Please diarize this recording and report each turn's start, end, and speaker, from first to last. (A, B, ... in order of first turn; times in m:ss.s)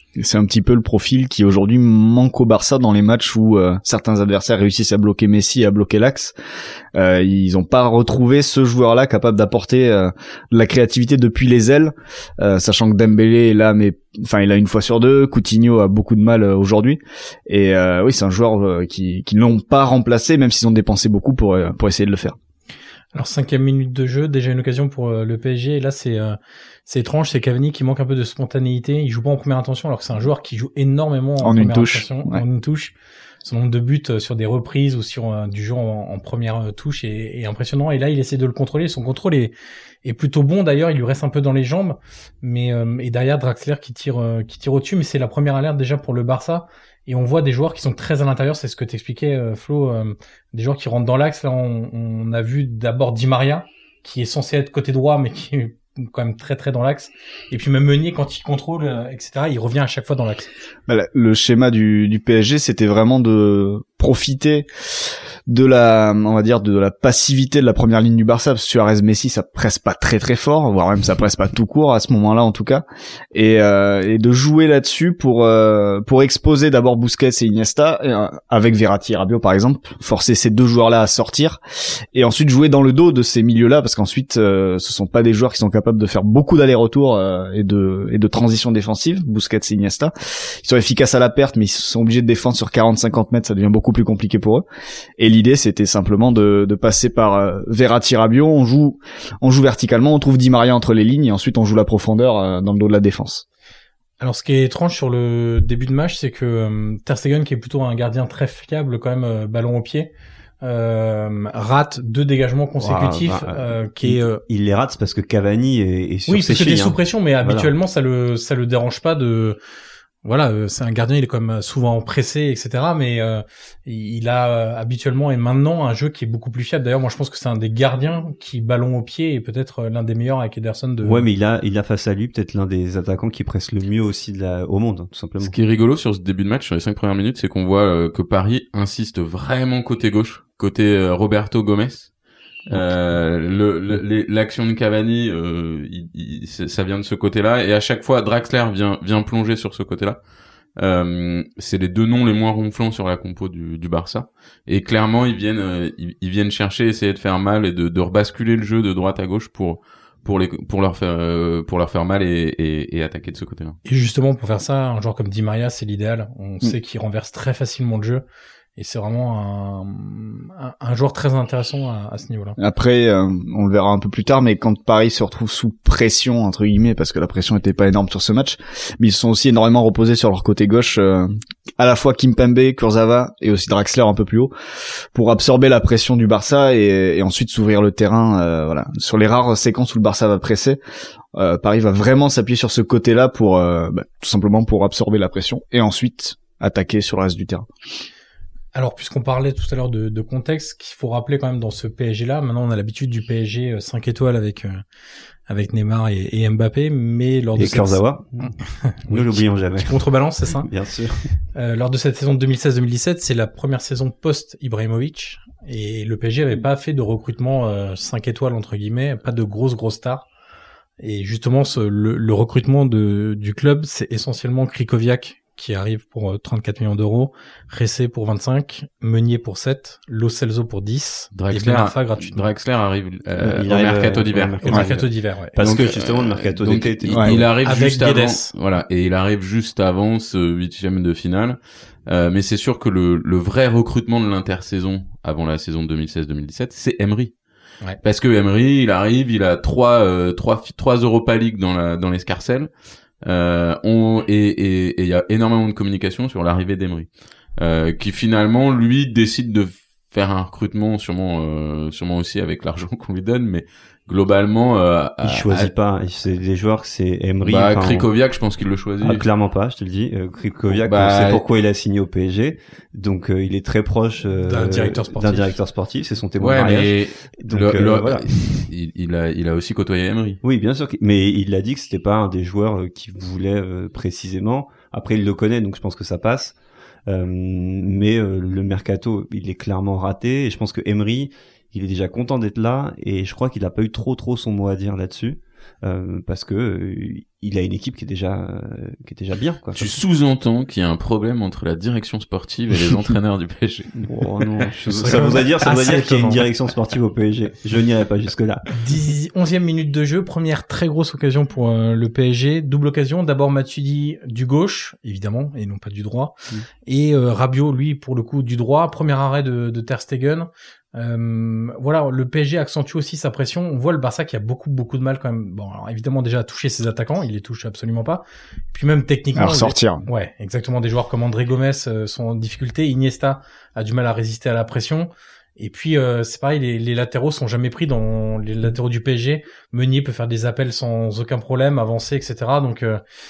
0:00.2-0:06.3 A
0:07.0-0:22.4 A
0:23.1-1:00.5 B
0:31.4-0:32.4 A
1:00.9-1:04.7 A
1:05.5-1:21.6 A
1:22.1-1:34.7 A
1:35.2-1:43.4 A
1:44.2-1:54.4 B
1:52.8-1:57.7 C
1:56.3-1:59.6 B
2:00.2-2:11.3 B
2:11.0-2:15.6 C
2:15.4-2:22.1 D
2:22.7-2:30.2 D
2:30.8-2:43.8 D
2:43.9-2:48.2 B
2:48.8-2:52.6 B
2:52.6-3:04.5 A
3:05.1-3:10.8 A
3:11.4-3:17.7 A
3:18.7-3:24.8 B
3:25.5-3:30.7 B
3:27.6-3:28.5 C
3:29.1-3:30.0 C
3:30.6-3:31.2 C
3:31.6-3:40.2 B
3:41.0-3:52.4 B
3:51.3-3:54.9 D
3:53.4-3:57.5 C
3:54.6-3:55.6 B
3:55.6-4:07.3 D
3:57.6-3:58.5 B
4:08.0-4:12.7 D
4:13.2-4:25.7 D
4:25.2-4:28.1 C
4:27.4-4:29.3 D
4:29.0-4:38.7 C
4:30.7-4:31.4 D
4:34.4-4:35.6 B
4:36.4-4:40.4 D
4:40.4-4:59.9 C
4:59.8-5:05.1 D
5:04.0-5:08.7 C
5:04.9-5:06.5 B
5:08.8-5:43.0 B
5:29.4-5:30.0 A